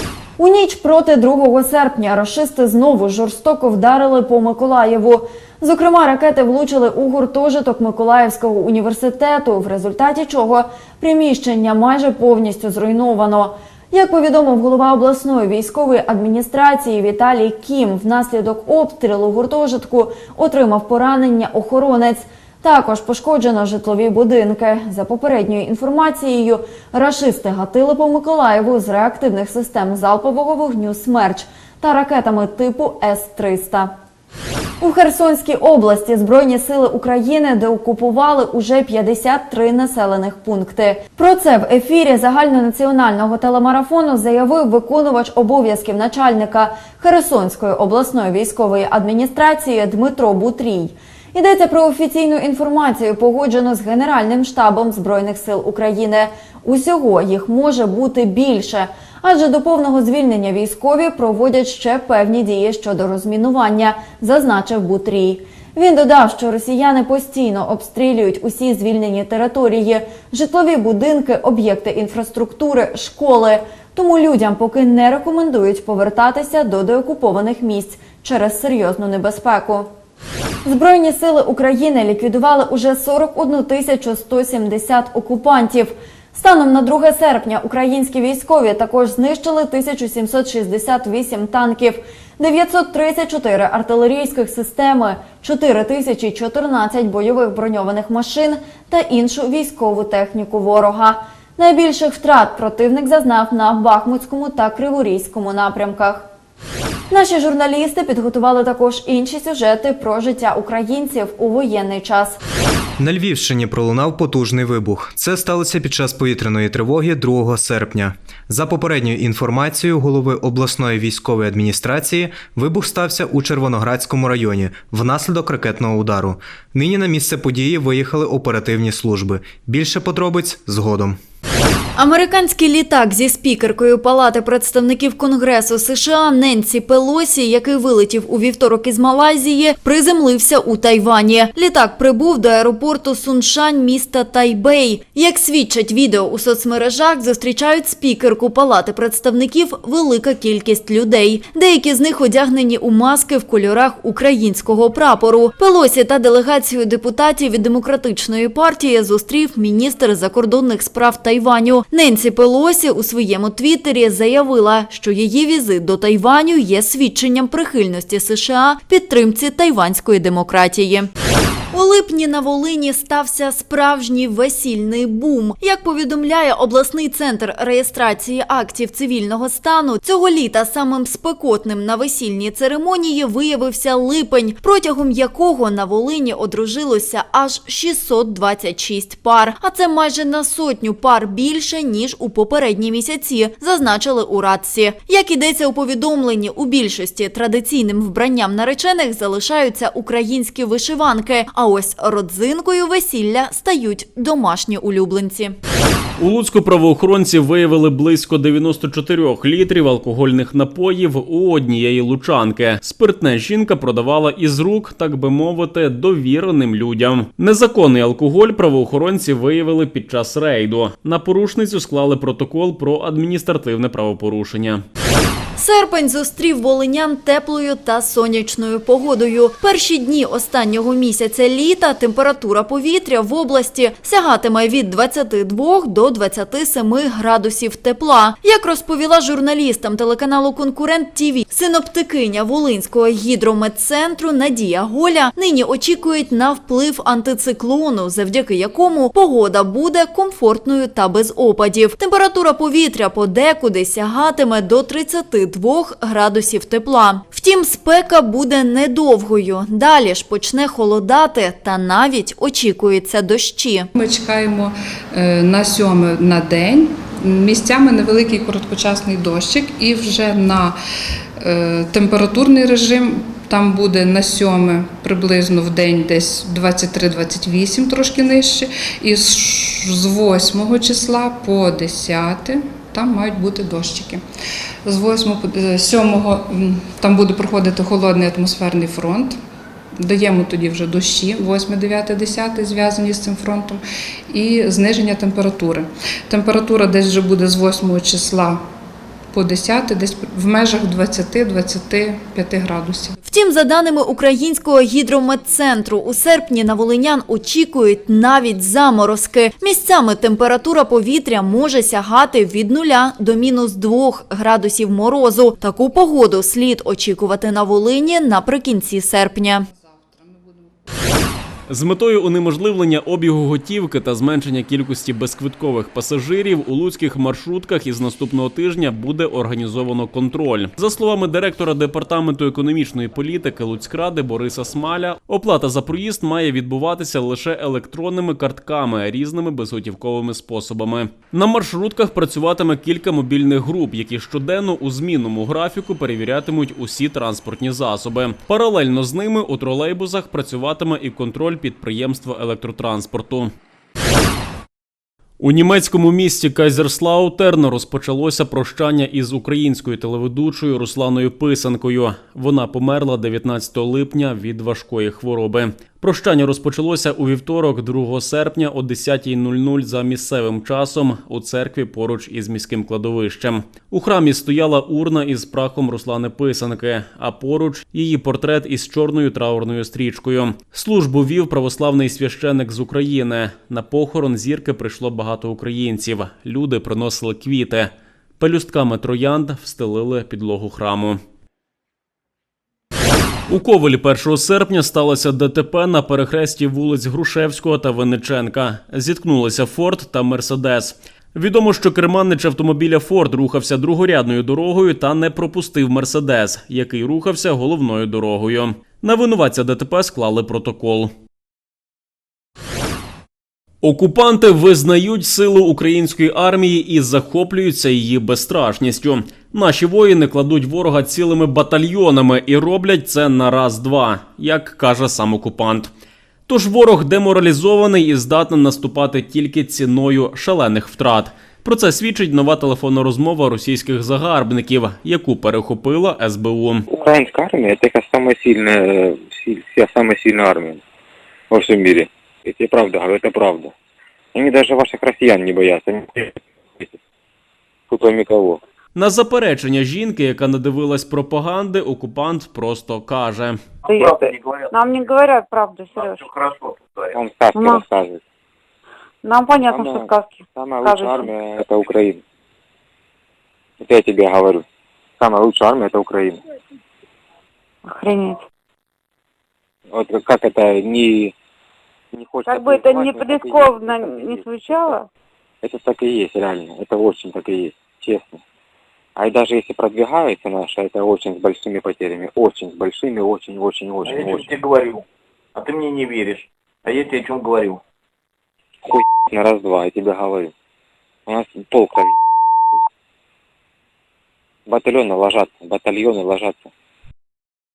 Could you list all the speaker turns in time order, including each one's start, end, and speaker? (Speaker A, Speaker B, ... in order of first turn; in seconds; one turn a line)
Speaker A: 0.4-33.9
Speaker A: 34.8-79.9
Speaker A: 80.7-106.3
Speaker A: 107.1-112.4
Speaker B: 113.0-131.2
Speaker A: 132.0-171.1
Speaker A: 171.7-205.6
Speaker C: 206.2-224.8
Speaker A: 225.6-263.9
Speaker D: 263.9-270.8
Speaker D: 271.4-284.2
Speaker D: 284.9-289.4
Speaker D: 290.0-298.7
Speaker D: 299.3-303.2
Speaker A: 303.3-319.7
Speaker D: 320.0-320.7
Speaker C: 321.7-353.5
Speaker C: 355.4-391.2
Speaker C: 393.5-411.1
Speaker C: 413.8-425.9
Speaker C: 426.5-436.9
Speaker E: 436.9-440.8
Speaker E: 441.5-443.7
Speaker E: 444.4-447.0
Speaker E: 447.9-448.6
Speaker C: 448.9-453.6
Speaker F: 453.9-454.8
Speaker G: 453.9-456.3
Speaker F: 456.0-457.2
Speaker E: 457.1-458.2
Speaker G: 457.5-457.8
Speaker G: 459.2-461.3
Speaker E: 459.7-462.2
Speaker E: 463.8-464.6
Speaker E: 465.2-466.4
Speaker G: 467.9-468.4
Speaker E: 469.9-471.3
Speaker E: 472.1-474.5
Speaker G: 472.5-475.1
Speaker E: 475.6-478.4
Speaker E: 479.2-484.6
Speaker F: 484.1-485.0
Speaker F: 485.6-487.8
Speaker E: 488.9-490.5
Speaker E: 491.3-492.1
Speaker E: 494.7-496.7